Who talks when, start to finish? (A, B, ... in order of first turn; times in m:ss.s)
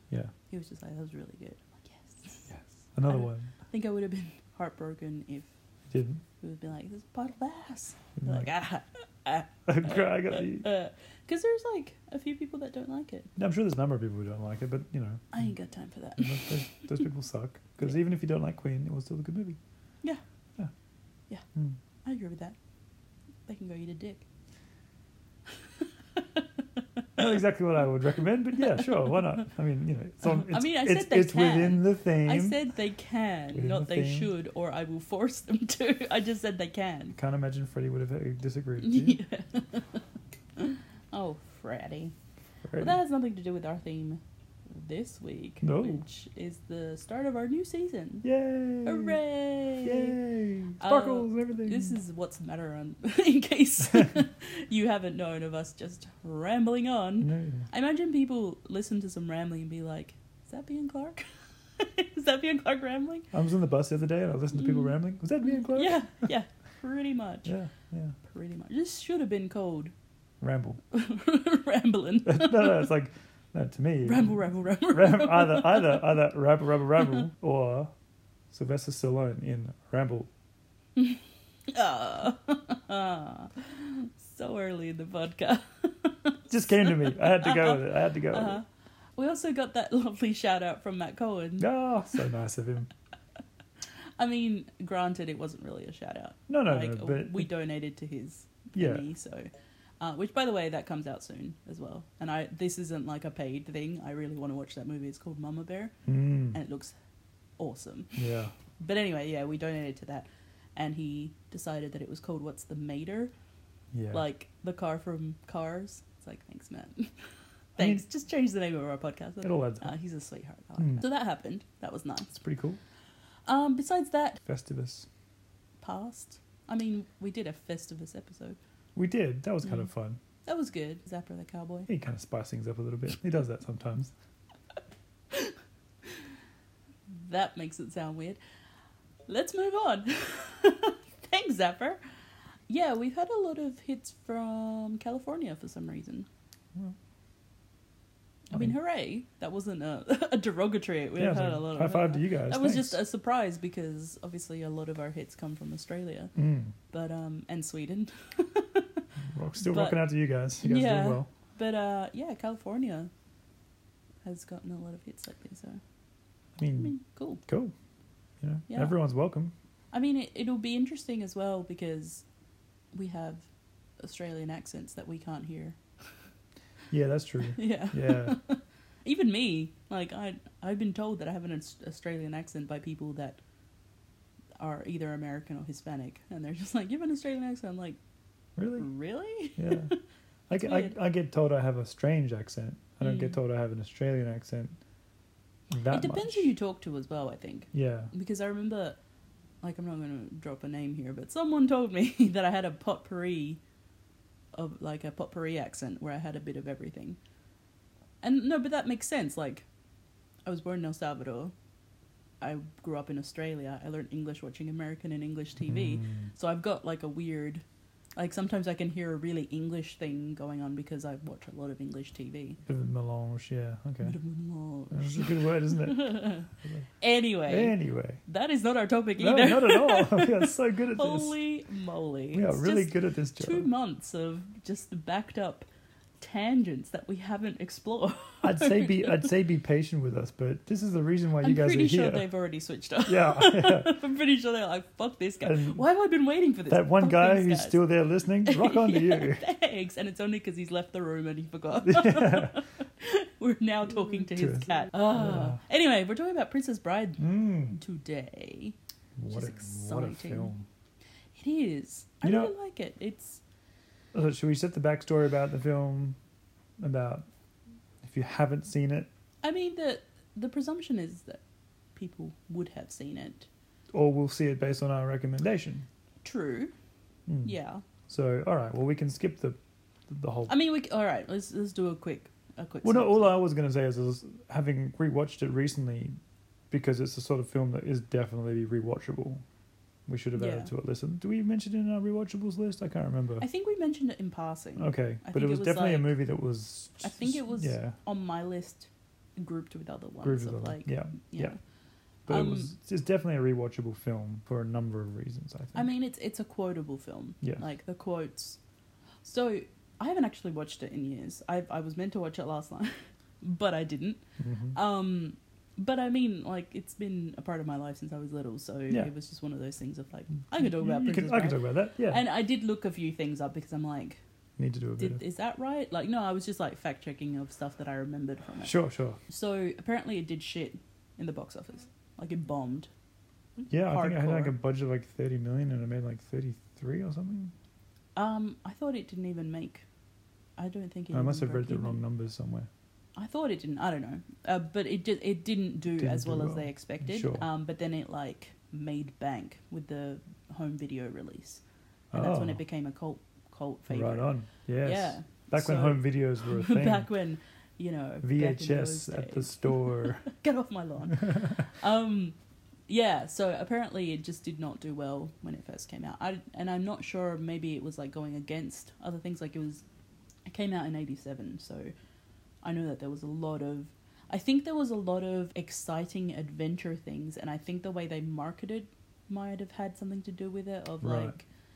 0:00.5-0:02.5 A
0:02.5-0:03.5 B
0:03.1-0:05.5 A
0:05.9-0:06.2 B
0:06.4-0:13.3 A
0:08.2-0:08.5 B
0:09.6-0:10.7 B
0:13.4-0:15.5 B
0:15.3-0:17.0 A
0:16.2-0:19.6 B
0:22.0-0:22.6 A
0:23.5-0:24.2 A
0:26.2-0:27.0 A
0:27.2-0:32.6 B
0:28.6-0:29.1 A
0:30.3-0:37.1 A
0:33.5-0:34.3 B
0:37.1-0:39.2 B
0:38.8-0:40.0 A
0:40.6-0:42.1 A
0:42.7-0:43.0 B
0:42.8-0:44.2 A
0:44.7-0:48.3 A
0:45.6-0:46.0 B
0:48.2-0:49.2 B
0:48.8-0:50.2 A
0:49.8-0:52.0 B
0:50.8-1:01.2 A
0:57.2-0:57.7 B
1:01.8-1:03.3 A
1:03.3-1:06.3 B
1:04.6-1:04.9 A
1:05.7-1:07.5 A
1:07.4-1:08.2 B
1:08.2-1:09.9 A
1:10.4-1:10.8 B
1:10.9-1:12.9 A
1:12.2-1:14.4 B
1:14.0-1:16.1 A
1:14.9-1:17.9 B
1:17.0-1:17.2 A
1:18.5-1:20.3 B
1:21.0-1:28.6 A
1:26.5-1:28.6 B
1:29.2-1:32.2 A
1:31.6-1:32.9 B
1:34.2-1:45.9 A
1:36.5-1:37.5 B
1:38.7-1:39.0 B
1:46.0-1:46.6 B
1:46.5-1:46.9 A
1:47.6-1:48.2 A
1:48.2-1:48.5 B
1:48.8-1:53.3 A
1:53.9-1:54.2 B
1:54.1-1:57.1 A
1:57.7-2:02.3 A
1:57.8-1:58.0 B
1:59.4-1:59.9 B
2:00.8-2:01.0 B
2:02.3-2:02.8 B
2:03.5-2:04.4 A
2:04.4-2:05.1 B
2:05.8-2:08.6 A
2:09.0-2:10.2 B
2:10.4-2:11.9 A
2:11.9-2:14.1 B
2:17.1-2:18.4 A
2:19.3-2:22.0 A
2:22.7-2:26.3 A
2:28.5-2:36.3 A
2:31.2-2:33.0 B
2:36.4-2:36.7 B
2:36.9-2:39.0 A
2:39.3-2:41.3 B
2:39.6-2:40.0 A
2:40.6-2:43.1 A
2:44.2-2:45.8 A
2:46.6-2:46.9 B
2:46.8-2:47.4 A
2:47.4-2:47.7 B
2:48.4-2:49.5 B
2:48.7-2:48.9 A
2:49.9-2:52.2 A
2:52.9-2:53.5 A
2:54.0-2:55.8 A
2:56.9-2:58.4 B
2:57.6-3:03.4 A
3:04.6-3:08.0 A
3:08.6-3:08.9 B
3:08.8-3:10.0 A
3:09.6-3:09.9 B
3:10.5-3:14.8 B
3:10.6-3:10.9 A
3:13.0-3:13.4 A
3:15.7-3:16.5 B
3:15.9-3:19.0 A
3:17.7-3:18.1 B
3:19.6-3:23.6 A
3:24.5-3:27.2 A
3:28.2-3:29.6 A
3:30.4-3:31.5 A
3:32.4-3:37.6 A
3:35.6-3:36.3 B
3:38.2-3:42.6 A
3:42.6-3:44.1 B
3:44.0-3:55.6 A
3:44.9-3:46.8 B
3:47.5-3:48.2 B
3:49.2-3:51.4 B
3:52.3-3:53.7 B
3:56.2-3:59.3 A
3:58.4-4:02.2 B
4:01.4-4:07.8 A
4:03.0-4:03.9 B
4:05.4-4:05.8 B
4:06.7-4:09.4 B
4:08.4-4:18.8 A
4:11.8-4:12.6 B
4:14.3-4:15.6 B
4:17.2-4:17.8 B
4:19.2-4:20.6 B
4:19.3-4:20.5 A
4:21.4-4:23.4 A
4:22.2-4:22.5 B
4:24.1-4:26.2 B
4:26.8-4:27.2 B
4:28.0-4:29.1 B
4:29.4-4:31.4 A
4:32.0-4:33.5 A
4:33.9-4:35.8 B
4:36.2-4:36.7 A
4:37.3-4:37.6 B
4:37.4-4:37.8 A
4:38.1-4:40.5 B
4:40.5-4:43.3 A
4:42.8-4:46.1 B
4:46.7-4:49.4 B
4:50.1-4:53.4 B
4:50.3-4:50.7 A
4:53.4-4:56.1 A
4:54.8-4:58.0 B
4:57.0-5:01.6 A
5:00.2-5:01.5 B
5:02.3-5:05.9 B
5:02.3-5:02.7 A
5:05.7-5:08.6 A
5:09.2-5:14.2 A
5:14.4-5:14.8 B
5:14.7-5:24.2 A
5:20.6-5:22.2 B
5:24.6-5:25.2 B
5:25.0-5:28.7 A
5:28.6-5:29.2 B
5:29.3-5:32.9 A
5:33.6-5:34.5 A
5:33.7-5:37.5 B
5:38.2-5:39.8 A
5:40.6-5:42.0 A
5:41.1-5:42.7 B
5:43.2-5:51.6 A
5:45.9-5:47.4 B
5:52.1-5:52.6 B
5:52.1-5:54.3 A
5:53.9-5:57.1 B
5:54.8-6:02.3 A
5:58.2-6:00.2 B
6:01.2-6:01.6 B
6:02.9-6:09.8 A
6:10.4-6:11.9 A
6:12.6-6:21.4 A
6:21.0-6:21.3 B